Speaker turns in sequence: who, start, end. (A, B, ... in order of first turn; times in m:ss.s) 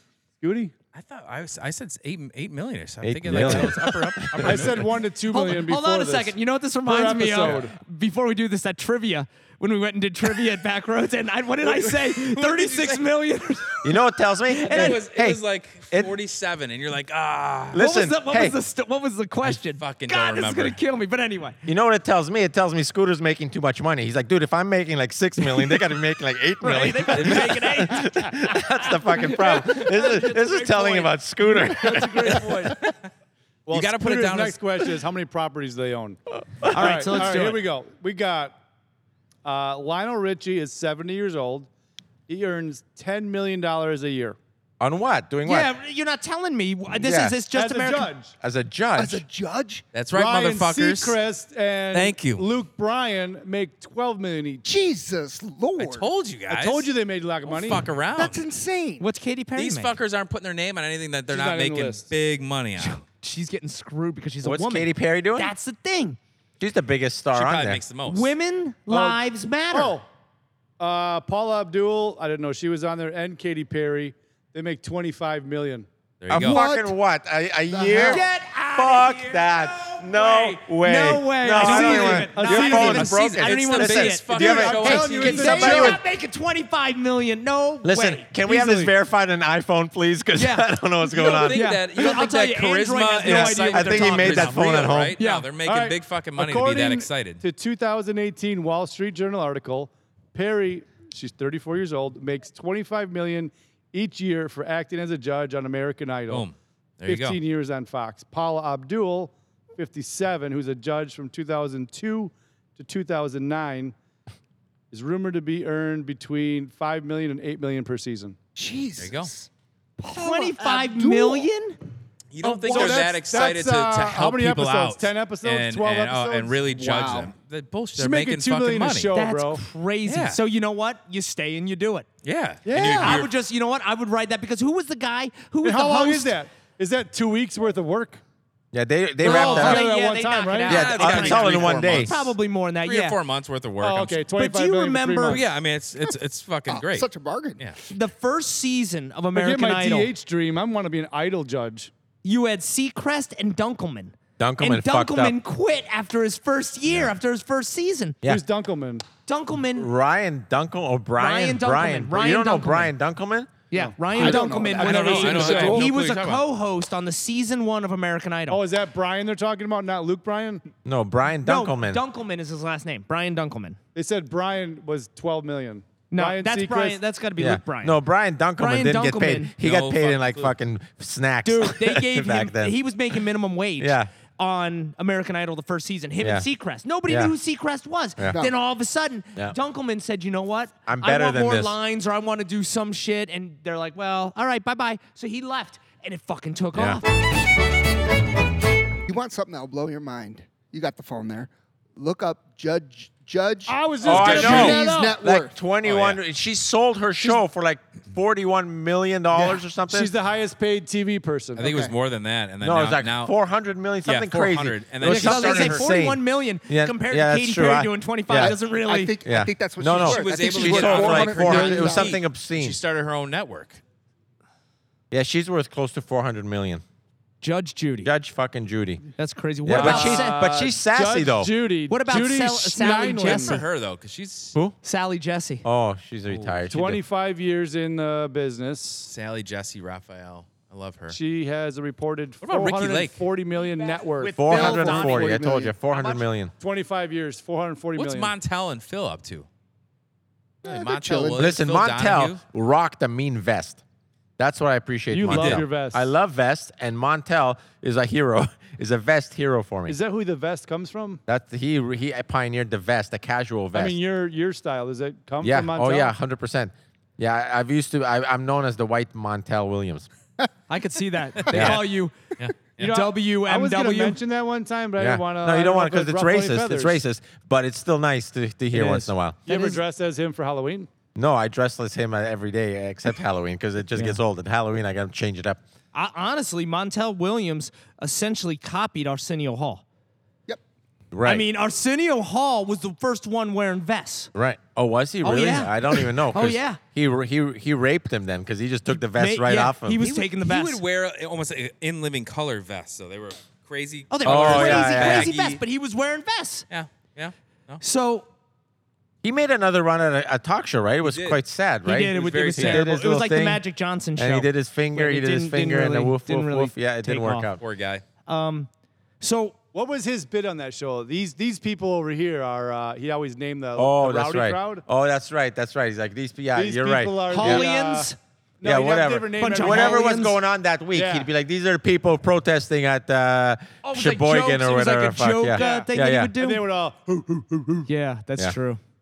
0:00.4-0:00.7 A
0:00.9-0:05.0 B
0:03.0-0:04.7 C
0:04.4-0:07.7 A
0:05.3-0:15.0 D
0:11.6-0:13.1 B
0:13.8-0:16.2 C
0:14.6-0:17.8 B
0:17.7-0:18.6 C
0:17.7-0:21.6 D
0:19.4-0:20.8 B
0:21.6-0:32.7 C
0:25.4-0:25.9 D
0:26.6-0:32.7 D
0:27.1-0:27.5 B
0:32.3-0:32.7 A
0:33.6-0:38.6 A
0:33.7-0:34.6 B
0:36.7-0:37.6 D
0:39.4-0:41.7 A
0:42.3-0:44.4 A
0:44.8-0:45.7 C
0:45.4-0:48.1 D
0:47.0-0:47.4 C
0:47.5-0:48.3 A
0:48.4-0:49.2 C
0:49.0-0:49.8 E
0:49.9-0:51.2 B
0:50.1-0:54.6 A
0:51.9-0:52.4 B
0:54.6-0:56.1 E
0:55.8-0:56.9 B
0:56.4-0:58.0 A
0:57.4-0:58.4 B
0:58.1-0:59.0 E
0:59.0-1:00.0 D
0:59.5-1:03.0 B
1:01.3-1:02.1 A
1:02.8-1:06.2 D
1:04.4-1:05.5 C
1:06.6-1:07.8 C
1:07.3-1:08.3 B
1:08.0-1:10.0 D
1:08.9-1:10.0 A
1:10.8-1:15.9 A
1:16.2-1:16.6 B
1:16.3-1:26.0 C
1:16.3-1:16.9 E
1:17.7-1:18.2 E
1:17.9-1:28.3 D
1:21.6-1:23.1 A
1:22.4-1:25.9 B
1:24.3-1:26.0 A
1:27.8-1:32.1 C
1:28.4-1:28.9 A
1:30.3-1:35.5 D
1:31.1-1:37.4 B
1:33.2-1:35.2 C
1:35.6-1:46.5 A
1:46.3-1:47.4 B
1:47.0-1:53.9 A
1:54.9-1:58.4 A
1:58.5-2:01.5 E
1:59.0-1:59.3 B
2:00.1-2:01.8 D
2:02.3-2:09.1 B
2:02.4-2:06.7 A
2:02.5-2:03.0 E
2:06.7-2:07.3 E
2:07.9-2:09.6 A
2:09.1-2:12.1 D
2:10.0-2:10.4 B
2:12.2-2:13.3 B
2:12.6-2:13.2 A
2:12.8-2:16.3 D
2:15.6-2:18.2 A
2:18.7-2:19.8 C
2:19.2-2:21.4 A
2:19.2-2:23.2 D
2:20.6-2:24.3 B
2:20.6-2:22.3 C
2:23.8-2:25.5 A
2:24.4-2:25.4 D
2:25.2-2:27.8 B
2:26.7-2:27.7 E
2:27.9-2:30.1 D
2:29.3-2:31.9 A
2:32.2-2:38.2 D
2:34.4-2:35.4 C
2:38.2-2:39.0 A
2:39.2-2:39.9 D
2:39.7-2:43.5 C
2:41.2-2:42.9 D
2:43.7-2:48.6 D
2:43.7-2:45.9 A
2:44.1-2:45.3 E
2:44.2-2:46.4 B
2:48.5-2:50.6 A
2:50.8-2:52.0 C
2:51.4-2:53.8 D
2:53.9-2:57.0 A
2:56.1-2:58.0 D
2:57.4-3:02.8 C
2:58.6-2:59.5 D
2:59.6-3:00.6 B
3:01.4-3:17.0 D
3:03.8-3:04.1 C
3:06.2-3:06.5 C
3:07.1-3:07.3 C
3:08.2-3:08.4 C
3:08.2-3:08.5 E
3:10.8-3:11.8 C
3:16.7-3:17.0 C
3:19.0-3:25.6 E
3:23.7-3:25.2 A
3:24.0-3:30.1 C
3:25.8-3:26.2 B
3:29.3-3:31.8 A
3:31.6-3:33.3 B
3:31.6-3:31.9 E
3:32.6-3:38.6 C
3:34.0-3:36.0 B
3:35.0-3:39.1 D
3:38.3-3:42.2 E
3:39.2-3:42.8 C
3:40.0-3:43.8 B
3:45.1-3:46.8 C
3:47.4-3:48.1 D
3:48.0-3:49.0 C
3:49.2-3:50.5 D
3:49.6-3:51.5 C
3:49.7-3:53.6 A
3:51.9-3:53.6 D
3:53.2-3:54.6 B
3:54.8-3:55.6 D
3:55.6-3:57.0 C
3:56.3-3:56.6 B
3:56.7-3:59.1 A
3:59.1-4:01.2 B
4:01.1-4:04.6 A
4:02.4-4:03.2 B
4:03.8-4:06.3 D
4:04.4-4:06.5 C
4:04.4-4:05.7 E
4:06.6-4:08.3 A
4:07.9-4:09.5 B
4:10.6-4:11.4 E
4:10.6-4:12.4 B
4:11.3-4:13.8 C
4:14.4-4:20.0 C
4:15.1-4:16.1 A
4:15.3-4:15.6 B
4:19.9-4:21.2 A
4:21.3-4:24.0 C
4:23.7-4:26.1 A
4:25.4-4:30.1 C
4:30.7-4:32.2 D
4:31.5-4:31.8 B
4:31.5-4:31.8 C
4:32.4-4:33.0 B
4:32.8-4:34.2 D
4:32.8-4:37.0 A
4:35.0-4:39.4 C
4:38.7-4:40.9 A
4:39.5-4:39.8 D
4:41.1-4:45.6 C
4:43.9-4:44.2 D
4:45.9-4:49.8 D
4:51.1-4:51.4 C
4:51.2-4:54.3 D
4:54.3-5:00.0 C
4:55.2-4:56.8 D
4:58.9-5:00.8 D
5:00.0-5:05.6 B
5:04.1-5:06.7 D
5:04.2-5:05.3 C
5:06.7-5:07.8 B
5:07.8-5:08.3 D
5:09.2-5:13.6 C
5:11.0-5:11.4 B
5:11.8-5:17.5 D
5:12.0-5:12.9 B
5:14.2-5:17.6 C
5:17.6-5:18.0 B
5:18.2-5:18.7 D
5:19.2-5:19.6 D
5:19.7-5:24.8 A
5:23.8-5:27.6 C
5:26.5-5:30.3 A
5:27.3-5:28.2 D
5:28.6-5:36.3 C
5:29.4-5:30.4 D
5:30.9-5:31.3 A
5:33.8-5:36.6 D
5:35.5-5:37.9 A
5:37.9-5:38.8 D